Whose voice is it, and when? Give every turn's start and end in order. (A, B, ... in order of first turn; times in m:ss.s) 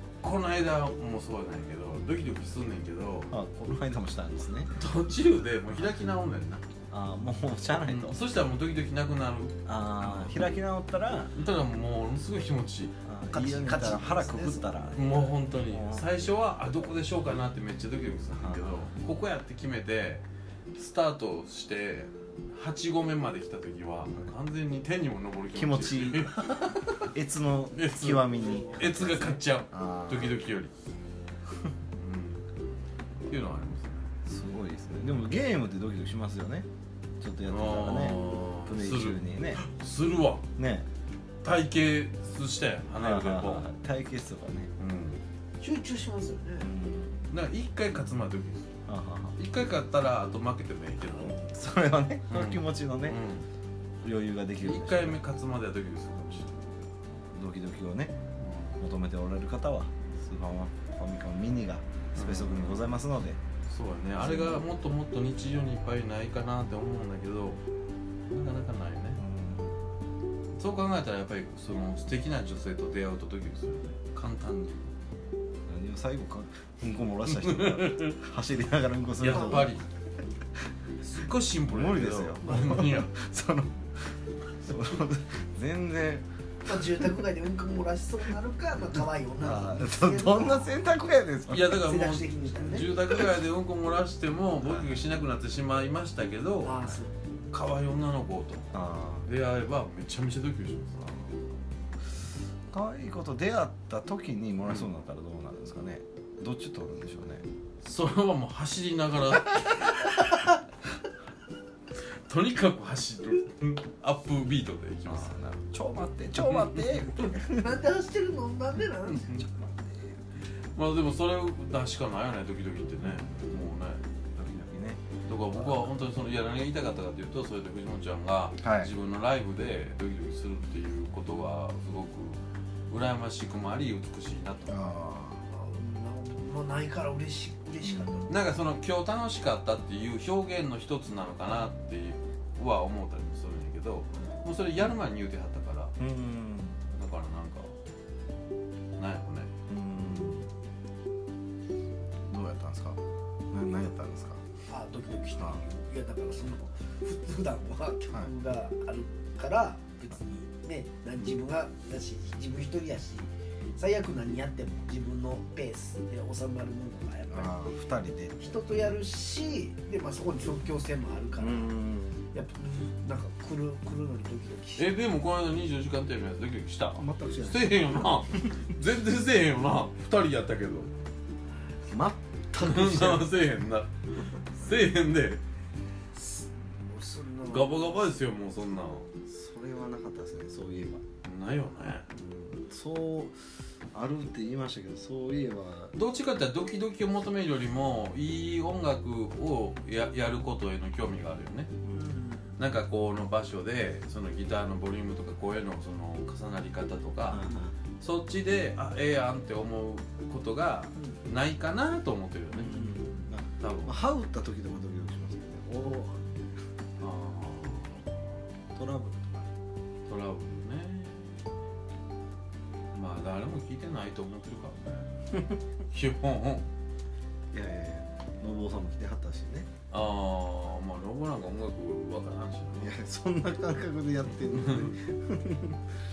0:00.2-0:03.3 A
0:03.3-0:04.7 B
0:04.7-0:06.6 A
0:06.9-0:08.2 B
0:07.8-0:10.4 A
0:09.7-0:11.3 B
0:11.3-0:12.9 A
0:13.0-0:16.1 B
0:13.3-0:15.0 C
0:14.9-0:20.2 A
0:18.3-0:18.9 B
0:20.8-0:26.8 A
0:25.5-0:26.3 B
0:27.1-0:30.4 B
0:27.7-0:30.7 A
0:28.3-0:28.8 C
0:32.0-0:32.5 A
0:33.3-0:34.1 A
0:34.3-0:36.7 B
0:37.2-0:39.6 B
0:37.5-0:40.5 A
0:40.6-0:40.9 B
0:41.4-0:43.7 A
0:43.0-0:44.7 B
0:44.8-0:45.2 A
0:45.6-0:46.7 C
0:46.6-0:47.2 B
0:47.3-0:48.7 A
0:48.9-0:49.4 B
0:49.4-0:51.4 A
0:51.2-0:53.2 B
0:52.3-0:53.5 A
0:54.0-0:55.2 B
0:54.6-0:56.5 A
0:57.3-0:58.2 B
0:58.4-0:58.8 A
0:58.8-1:03.4 B
1:02.2-1:02.8 A
1:03.7-1:07.6 A
1:04.2-1:04.6 B
1:08.3-1:09.2 A
1:09.2-1:09.8 B
1:10.6-1:15.0 A
1:15.7-1:19.8 B
1:17.4-1:18.2 A
1:19.2-1:19.8 A
1:19.4-1:19.6 C
1:21.0-1:23.1 A
1:21.6-1:23.8 B
1:24.6-1:26.3 B
1:26.6-1:30.7 C
1:29.4-1:31.8 B
1:31.5-1:37.0 A
1:31.7-1:32.9 C
1:34.6-1:34.9 B
1:36.6-1:37.1 C
1:37.5-1:41.1 A
1:38.7-1:39.3 B
1:42.7-1:47.4 B
1:47.8-1:50.2 A
1:52.3-1:55.4 A
1:55.0-1:57.8 B
1:56.3-1:57.3 A
1:57.5-1:59.4 C
1:59.0-1:59.4 A
1:59.4-2:00.2 B
2:00.8-2:04.0 A
2:03.0-2:03.7 B
2:04.4-2:05.9 B
2:05.2-2:14.9 A
2:08.6-2:08.9 B
2:14.7-2:15.4 B
2:15.5-2:18.3 C
2:17.8-2:18.3 B
2:18.3-2:25.9 A
2:24.1-2:24.4 C
2:26.0-2:26.8 B
2:26.9-2:27.7 A
2:29.0-2:29.5 A
2:29.7-2:30.5 B
2:32.3-2:33.0 B
2:33.5-2:34.4 B
2:34.7-2:47.6 C
2:35.4-2:35.6 B
2:47.3-2:48.9 B
2:48.4-2:51.8 C
2:51.4-2:52.2 B
2:52.3-2:54.9 C
2:54.8-3:00.9 A
2:57.0-2:58.6 B
3:01.9-3:03.4 B
3:02.6-3:05.4 A
3:06.2-3:08.2 C
3:07.4-3:09.1 A
3:09.3-3:11.0 B
3:11.2-3:12.1 A
3:12.1-3:13.4 B
3:13.9-3:15.9 B
3:15.9-3:21.7 A
3:21.9-3:22.6 C
3:22.6-3:27.5 A
3:27.3-3:27.8 B
3:28.0-3:32.7 A
3:32.5-3:36.2 B
3:32.6-3:33.3 C
3:33.6-3:34.0 A
3:37.0-3:38.1 A
3:38.7-3:39.5 B
3:40.1-3:41.4 A
3:42.9-3:45.1 A
3:45.9-3:46.7 A
3:47.5-3:49.7 B
3:49.9-3:53.0 A
3:52.8-3:55.8 B
3:54.3-3:55.0 A